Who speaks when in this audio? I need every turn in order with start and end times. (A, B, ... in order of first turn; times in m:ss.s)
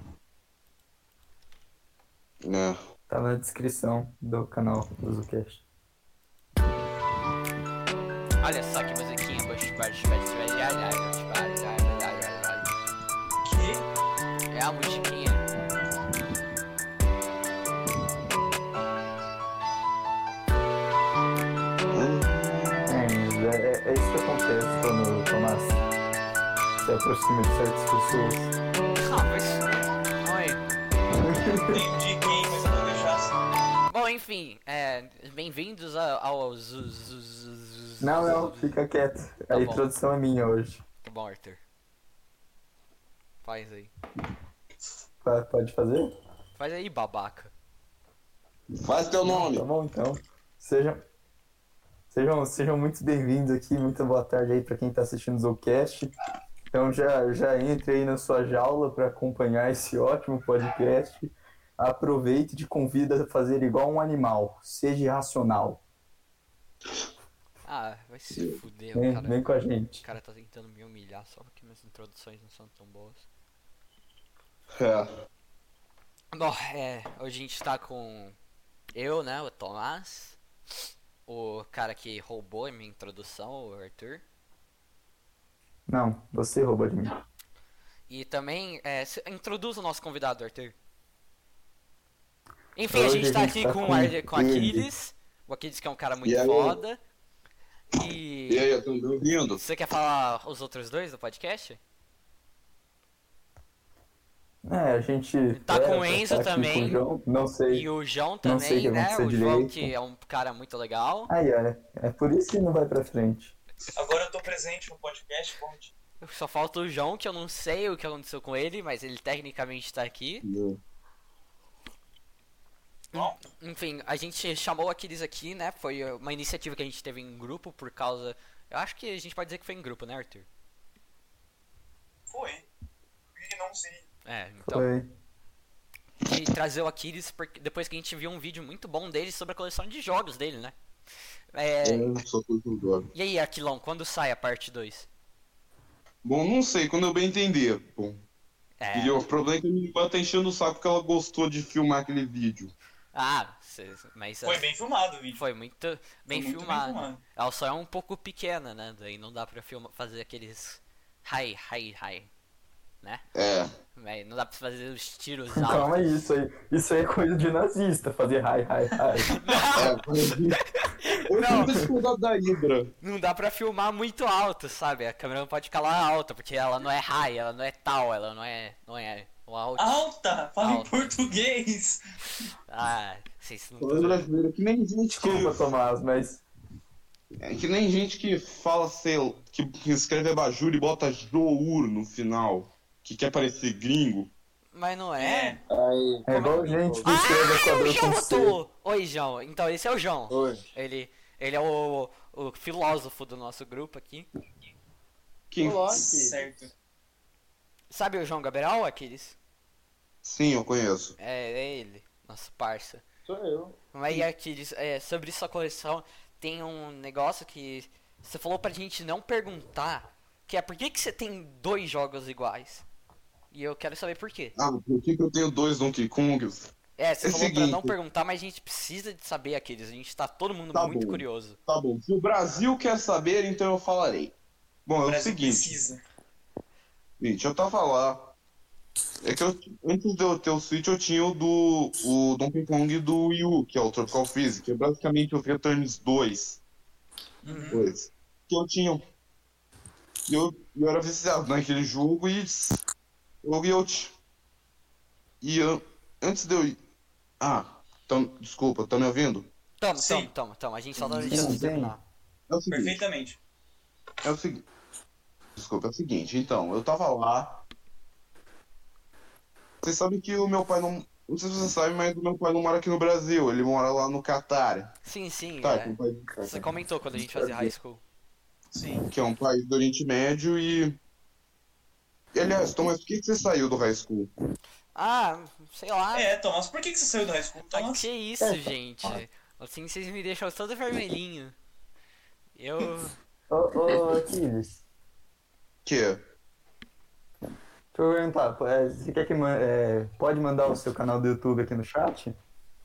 0:02.4-0:02.8 A
0:03.1-0:05.6 B
0:08.4-0:12.7 C
0:13.4-0:13.9 D
0:14.5-0:15.4 C
0:21.9-0:22.9 A
0:22.9-0:25.8 B
0:26.8-0:28.5 B
0:29.0-0:30.6 C
0:31.2-0:31.8 B
0:31.7-0:33.3 D
0:33.9-0:38.8 C
0:38.0-0:40.8 B
0:39.5-0:39.9 C
0:41.0-0:41.6 C
0:43.4-0:43.9 C
0:45.2-0:46.1 B
0:46.6-0:47.5 C
0:48.7-0:49.6 A
0:49.2-0:51.0 B
0:52.1-0:56.1 B
0:56.7-1:05.8 B
1:07.6-1:09.4 C
1:08.9-1:10.0 B
1:10.0-1:13.2 C
1:14.7-1:15.1 A
1:16.3-1:18.4 C
1:18.9-1:20.4 C
1:21.3-1:24.2 C
1:25.9-1:27.1 B
1:28.1-1:30.7 C
1:32.8-1:37.0 C
1:32.9-1:34.9 B
1:36.2-1:36.8 A
1:37.9-1:38.7 C
1:38.5-1:39.6 A
1:39.6-1:41.8 C
1:44.6-1:47.9 B
1:45.5-1:47.0 C
1:47.7-1:51.3 C
1:48.4-1:49.9 B
1:51.3-1:53.5 B
1:53.9-1:55.9 D
1:56.2-2:00.4 C
2:00.4-2:00.8 A
2:03.1-2:10.5 C
2:12.3-2:12.7 D
2:13.3-2:14.1 D
2:14.2-2:14.9 C
2:14.6-2:15.1 B
2:16.2-2:20.7 C
2:21.5-2:22.1 C
2:21.8-2:23.1 A
2:23.1-2:25.1 C
2:26.2-2:28.2 A
2:28.8-2:29.3 C
2:28.9-2:32.7 A
2:33.1-2:34.6 C
2:34.4-2:35.4 D
2:35.4-2:42.3 C
2:36.3-2:37.2 D
2:43.3-2:43.7 A
2:43.9-2:46.1 C
2:45.5-2:49.3 B
2:49.3-2:50.0 C
2:49.7-2:50.6 A
2:50.7-2:51.8 C
2:51.2-2:52.9 A
2:53.0-3:00.0 C
2:59.8-3:02.0 D
3:00.6-3:01.1 C
3:02.7-3:04.2 C
3:03.8-3:05.7 A
3:05.1-3:06.4 B
3:07.4-3:14.3 A
3:14.7-3:15.6 C
3:15.2-3:15.6 D
3:15.7-3:17.2 E
3:16.2-3:18.6 B
3:17.0-3:24.3 C
3:20.3-3:20.7 E
3:25.5-3:25.9 A
3:25.6-3:26.4 E
3:25.9-3:26.7 D
3:27.9-3:29.4 C
3:30.2-3:31.1 A
3:31.2-3:33.0 C
3:33.2-3:33.8 E
3:33.9-3:42.8 C
3:43.5-3:44.5 C
3:44.6-3:46.7 A
3:47.0-3:51.6 C
3:47.2-3:47.9 A
3:50.7-3:54.3 A
3:54.8-3:55.7 A
3:55.0-3:56.0 D
3:57.2-3:58.3 A
3:59.2-4:06.6 A
4:07.4-4:07.9 D
4:07.4-4:07.8 C
4:07.7-4:09.0 A
4:10.3-4:12.8 A
4:13.4-4:14.1 A
4:15.4-4:16.8 A
4:17.4-4:19.5 A
4:19.8-4:22.0 C
4:20.0-4:20.3 D
4:21.0-4:21.9 B
4:21.3-4:21.6 A
4:22.5-4:23.0 A
4:22.7-4:23.4 D
4:24.2-4:24.6 A
4:25.6-4:27.6 A
4:29.8-4:34.9 A
4:35.0-4:38.0 C
4:35.6-4:36.6 A
4:37.2-4:37.7 A
4:38.7-4:39.0 D
4:39.1-4:41.0 A
4:42.3-4:44.3 A
4:44.9-4:46.3 C
4:46.1-4:48.1 D
4:47.7-4:51.6 C
4:48.4-4:49.2 E
4:52.6-4:53.1 C
4:53.5-4:54.8 B
4:55.8-4:56.2 A
4:57.9-5:02.4 B